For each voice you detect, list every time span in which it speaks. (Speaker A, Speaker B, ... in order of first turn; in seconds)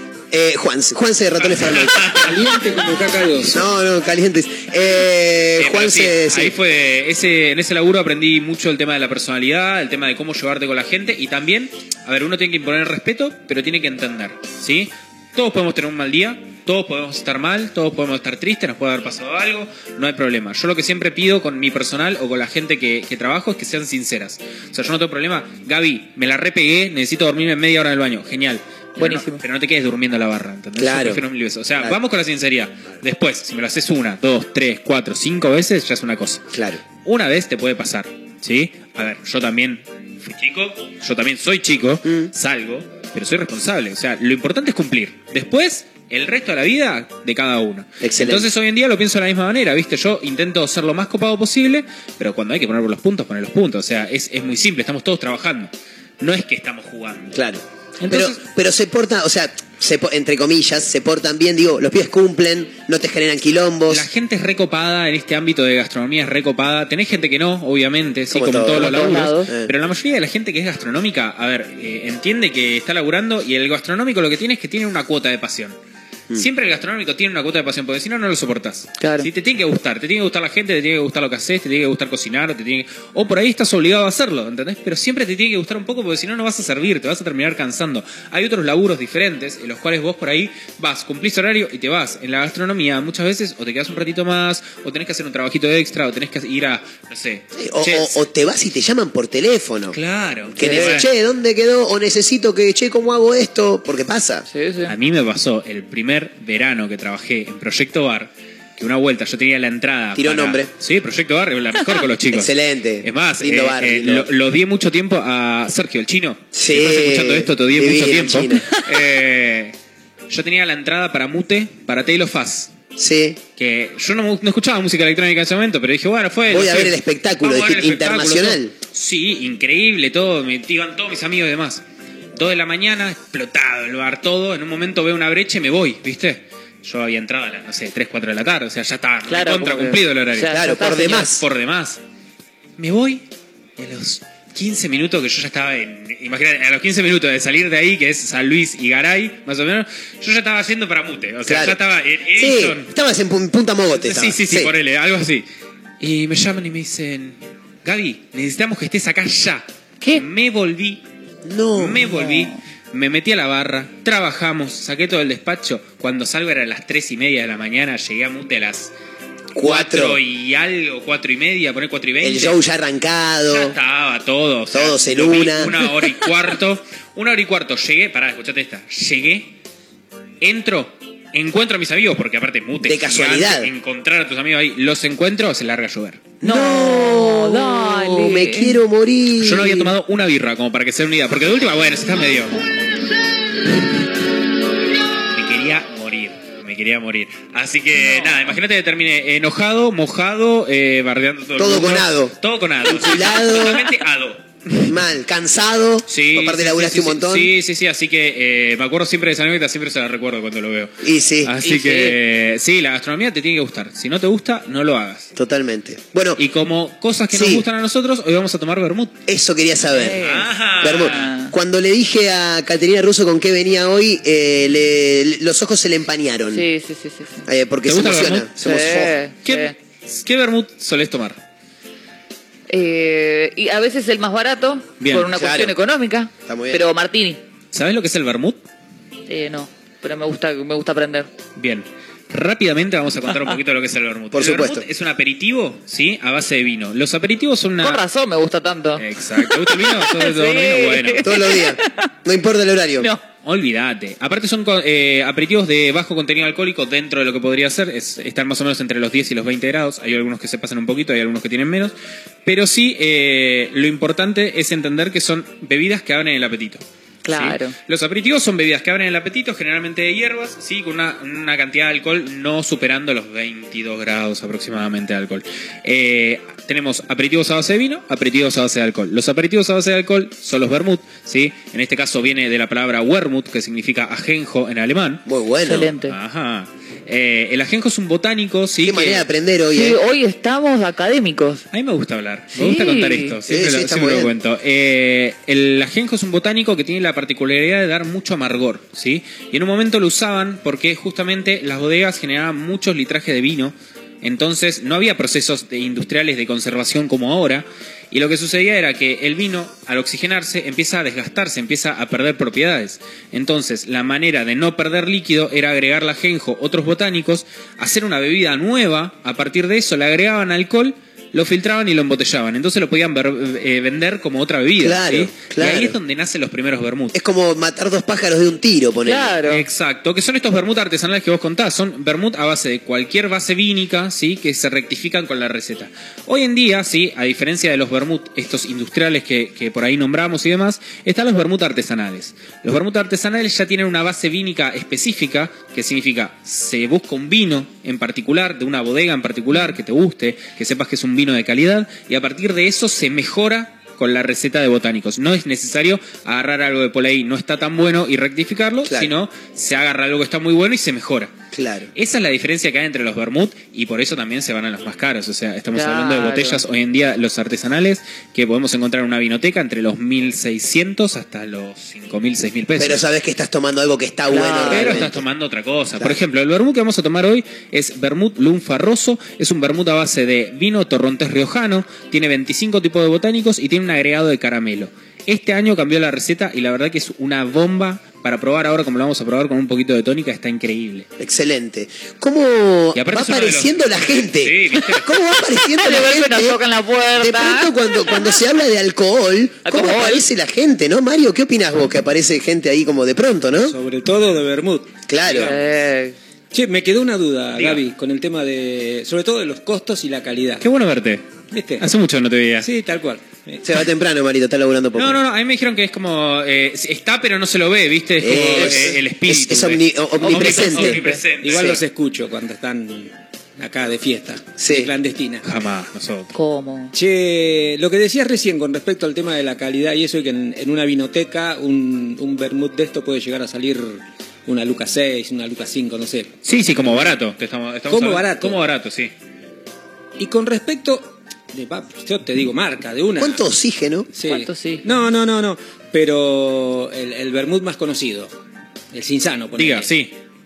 Speaker A: 0.3-2.2, 3.5-6.6, 30.8-31.2, 36.5-36.8, 42.1-42.3, 48.0-48.5, 57.3-64.1, 68.3-69.7, 97.6-100.0, 100.6-104.5, 110.2-110.7, 112.3-114.3, 116.5-118.7, 123.0-123.4, 126.5-128.8, 140.5-141.4, 151.5-151.8, 152.3-154.7, 161.4-162.1, 169.5-170.2, 172.2-173.8, 174.7-175.8, 182.8-183.7, 186.4-189.9, 201.6-203.9, 204.8-207.5, 211.0-211.6, 215.4-216.4, 217.3-217.7, 219.3-220.2, 220.8-226.7, 227.5-229.2, 235.3-235.8, 236.5-236.8, 244.3-244.9, 251.2-253.1, 285.3-285.9, 288.8-290.0, 293.5-294.3, 324.8-326.0, 327.1-329.4, 358.9-359.1, 361.5-361.9, 372.8-375.2, 391.2-396.6, 397.2-403.8, 405.1-405.5, 413.6-415.2, 418.2-421.8, 424.6-424.9, 443.2-444.1
Speaker B: 1.5-2.3, 5.6-57.4, 58.0-58.4, 63.9-75.8, 76.3-98.2, 99.9-101.1, 104.9-119.8, 120.3-122.8, 123.6-131.8, 132.3-142.0, 142.8-143.2, 143.8-152.9, 153.9-155.4, 156.0-161.0, 161.8-168.9, 169.6-172.6, 173.5-179.5, 180.4-186.3, 189.4-192.6, 195.3-204.9, 206.1-210.9, 211.4-215.3, 216.4-219.2, 220.2-221.3, 227.8-228.5, 229.4-231.4, 235.0-235.3, 237.7-238.6, 241.6-248.0, 249.0-251.4, 253.4-285.2, 286.1-289.3, 291.7-327.2, 329.5-361.4, 361.9-373.0, 374.7-391.1, 392.9-395.1, 407.6-407.8, 410.6-411.3, 411.8-412.7, 414.9-421.8, 425.4-426.3, 436.4-439.1, 449.6-450.1
Speaker C: 2.2-3.6, 403.7-405.6, 406.5-410.6, 411.5-411.9, 412.6-413.6, 421.4-425.4, 426.9-437.2, 437.9-438.6, 440.2-443.4, 444.1-448.3, 448.9-449.9
Speaker D: 29.0-29.4, 68.7-69.5, 79.0-79.3, 100.6-100.9, 104.5-104.9, 139.3-141.3, 162.1-162.6, 186.4-188.8, 198.0-198.4, 211.6-212.2, 219.9-221.5, 226.5-227.4, 228.6-229.8, 232.7-237.4, 239.3-241.3, 247.8-252.1, 267.2-267.8, 285.6-286.1, 289.7-291.6, 292.5-293.4, 329.1-329.6, 365.7-366.6, 374.3-375.1, 395.8-397.7, 399.6-400.3, 405.4-406.2, 420.2-421.2, 426.3-426.9, 444.3-444.9